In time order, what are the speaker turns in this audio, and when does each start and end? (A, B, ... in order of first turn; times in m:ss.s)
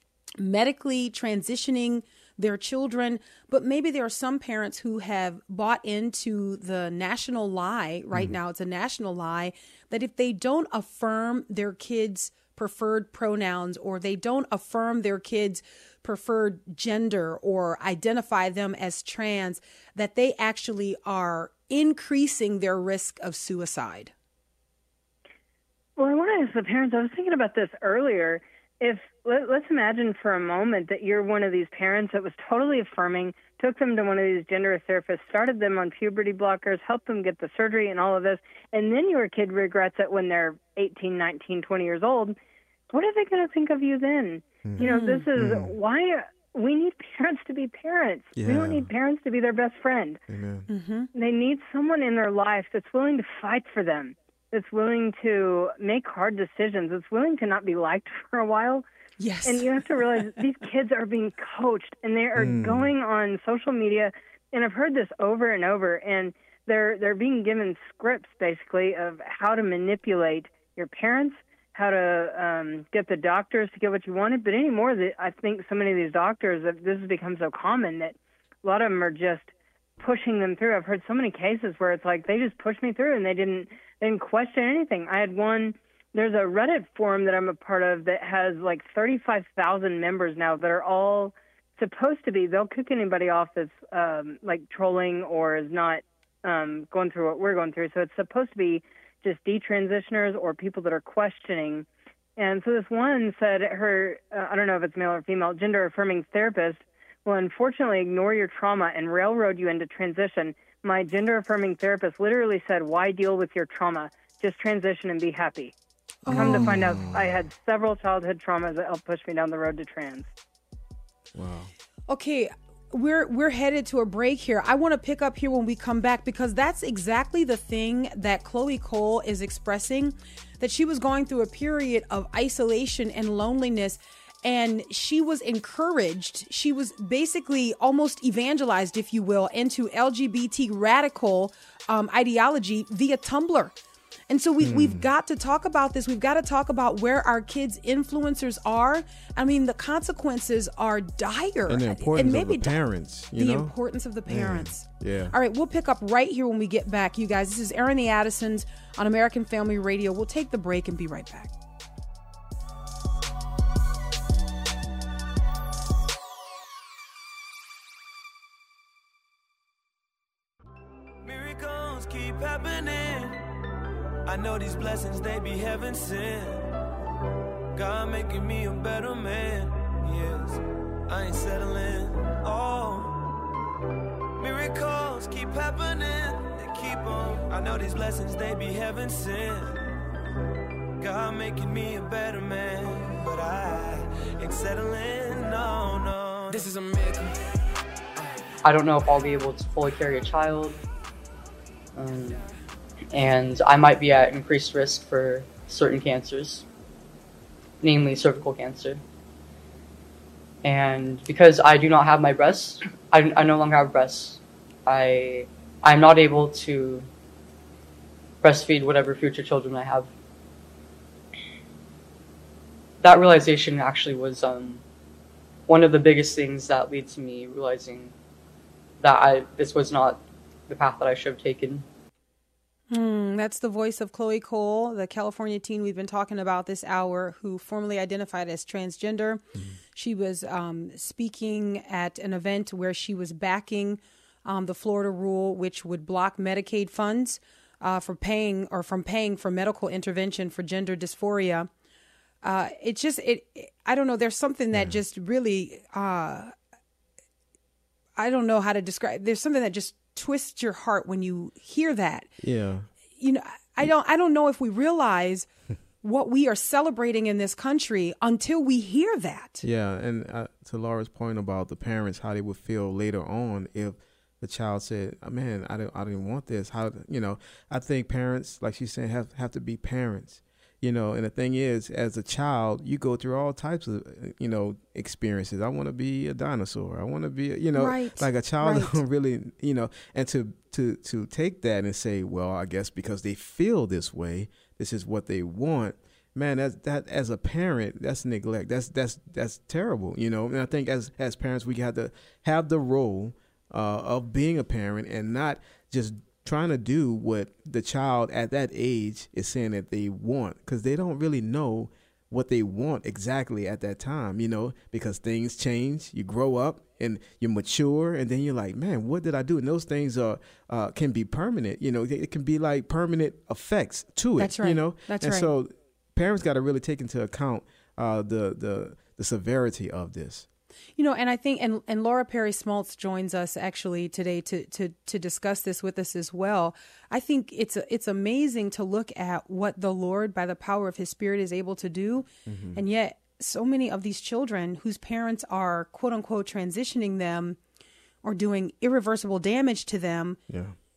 0:00.4-0:24.1 A
0:26.0-0:42.4 B
0:42.9-0:50.2 B
0:44.6-0:45.7 C
0:44.8-0:45.3 A
0:48.4-0:48.9 C
0:50.3-0:50.7 C
0:50.7-0:51.1 A
0:51.1-0:58.8 B
0:59.2-1:00.4 A
0:59.4-1:55.7 B
1:02.4-1:02.9 C
1:56.2-1:57.0 A
1:56.3-1:57.4 C
1:56.3-2:00.3 B
2:01.3-2:01.7 C
2:02.1-2:23.7 A
2:24.3-2:32.8 A
2:24.6-2:25.1 C
2:31.7-2:33.7 C
2:33.3-2:41.5 A
2:34.3-2:35.4 C
2:51.2-2:53.4 D
2:54.2-2:56.7 D
2:57.7-3:03.2 D
3:04.4-3:09.9 D
3:11.0-3:16.8 D
3:18.6-3:20.8 E
3:21.9-3:22.4 E
3:23.1-3:26.6 E
3:27.8-3:29.0 E
3:30.6-3:37.0 E
3:38.4-3:40.1 E
3:43.0-3:44.8 E
3:45.7-3:48.1 E
3:49.0-3:51.8 E
3:52.9-3:59.4 A
3:59.9-4:11.7 A
4:12.4-4:16.5 A
4:18.2-4:22.3 A
4:22.4-4:22.9 C
4:23.2-4:25.5 A
4:26.0-4:29.6 A
4:29.6-5:30.4 C
4:47.8-4:49.0 A
5:24.4-5:25.5 A
5:31.0-5:47.6 A
5:42.5-5:42.8 C
5:48.2-5:50.4 A
5:50.5-5:50.7 C